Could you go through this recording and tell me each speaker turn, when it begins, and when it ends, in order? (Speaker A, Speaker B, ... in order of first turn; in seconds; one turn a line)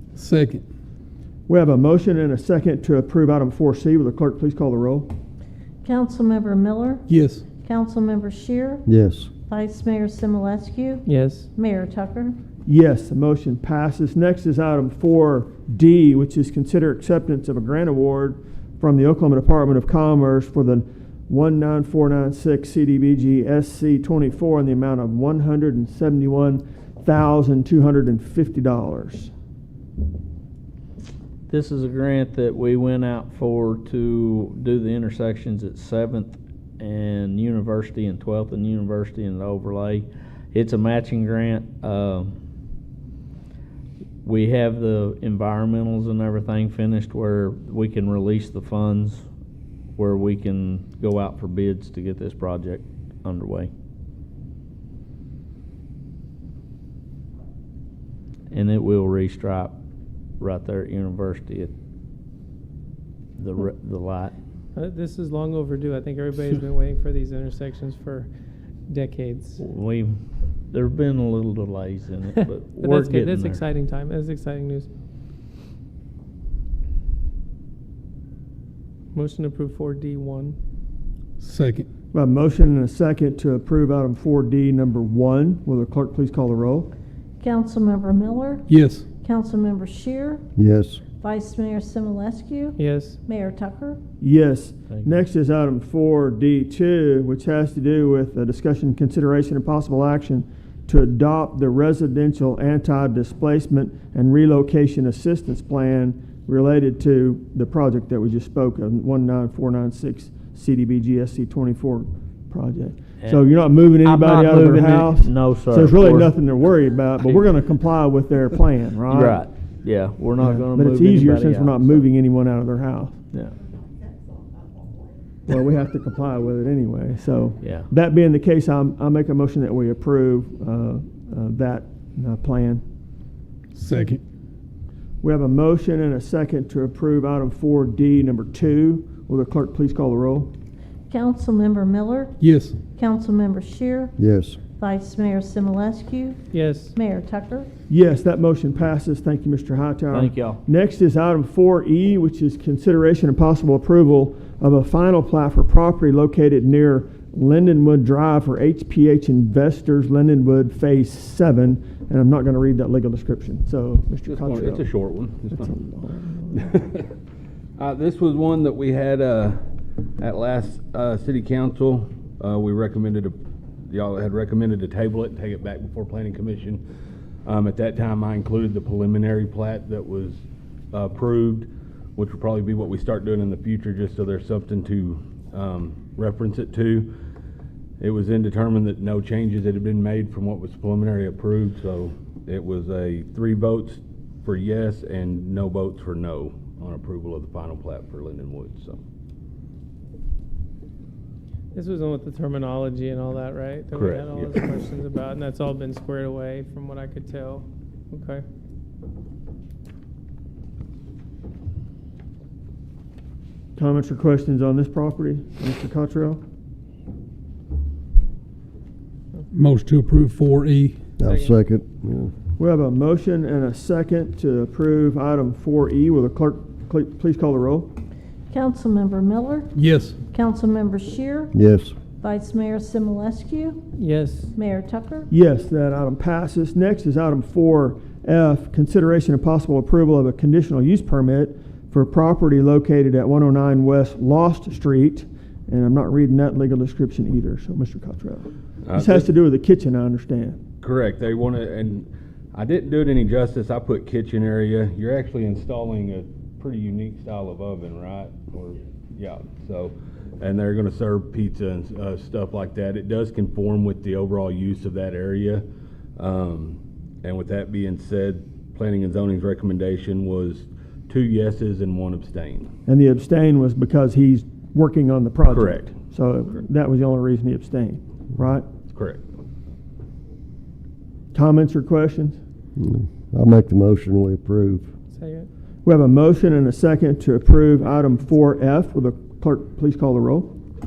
Speaker A: 0.2-0.6
Speaker B: 1.5-5.1
Speaker C: 5.8-7.1
Speaker A: 7.1-7.5
Speaker C: 7.6-8.8
Speaker D: 8.9-9.3
Speaker C: 9.5-12.4
Speaker E: 11.1-11.5
Speaker B: 12.7-29.3
Speaker F: 31.5-42.3
Speaker F: 44.2-49.3
Speaker F: 50.0-53.7
Speaker F: 58.5-59.8
Speaker F: 60.4-61.7
Speaker F: 63.4-64.4
Speaker E: 64.8-68.3
Speaker E: 68.9-69.6
Speaker F: 69.6-73.6
Speaker E: 72.8-74.9
Speaker E: 79.1-80.6
Speaker A: 81.4-81.9
Speaker B: 82.1-86.9
Speaker C: 87.4-88.7
Speaker A: 88.7-89.1
Speaker C: 89.2-90.4
Speaker D: 90.6-91.0
Speaker C: 91.2-94.0
Speaker E: 92.8-93.2
Speaker B: 94.2-119.4
Speaker F: 114.0-116.3
Speaker F: 117.2-117.5
Speaker F: 119.1-122.0
Speaker B: 120.4-123.2
Speaker B: 125.5-132.8
Speaker F: 127.6-127.9
Speaker A: 133.8-134.2
Speaker B: 135.2-140.5
Speaker C: 141.1-142.4
Speaker A: 142.4-142.8
Speaker C: 142.9-144.2
Speaker D: 144.2-144.6
Speaker C: 144.7-146.4
Speaker E: 146.5-147.0
Speaker C: 146.9-147.7
Speaker B: 147.9-164.9
Speaker F: 150.1-150.6
Speaker G: 164.3-165.7
Speaker B: 165.6-166.7
Speaker G: 166.5-167.1
Speaker G: 167.8-169.6
Speaker G: 170.2-176.8
Speaker G: 177.4-187.1
Speaker G: 188.0-199.0
Speaker E: 201.7-208.4
Speaker G: 203.9-204.7
Speaker B: 213.8-216.4
Speaker A: 219.5-221.1
Speaker D: 221.2-222.3
Speaker E: 221.2-221.6
Speaker B: 222.6-227.9
Speaker C: 228.5-229.7
Speaker A: 229.8-230.2
Speaker C: 230.3-231.5
Speaker D: 231.5-232.0
Speaker C: 232.1-233.8
Speaker E: 233.9-234.5
Speaker C: 234.6-235.3
Speaker B: 235.3-250.6
Speaker G: 248.8-249.3
Speaker G: 250.8-265.6
Speaker G: 266.2-272.7
Speaker B: 272.9-278.7
Speaker G: 275.5-275.9
Speaker G: 278.9-279.2
Speaker B: 281.3-282.4
Speaker D: 282.8-284.9
Speaker E: 285.1-285.5
Speaker B: 285.9-290.5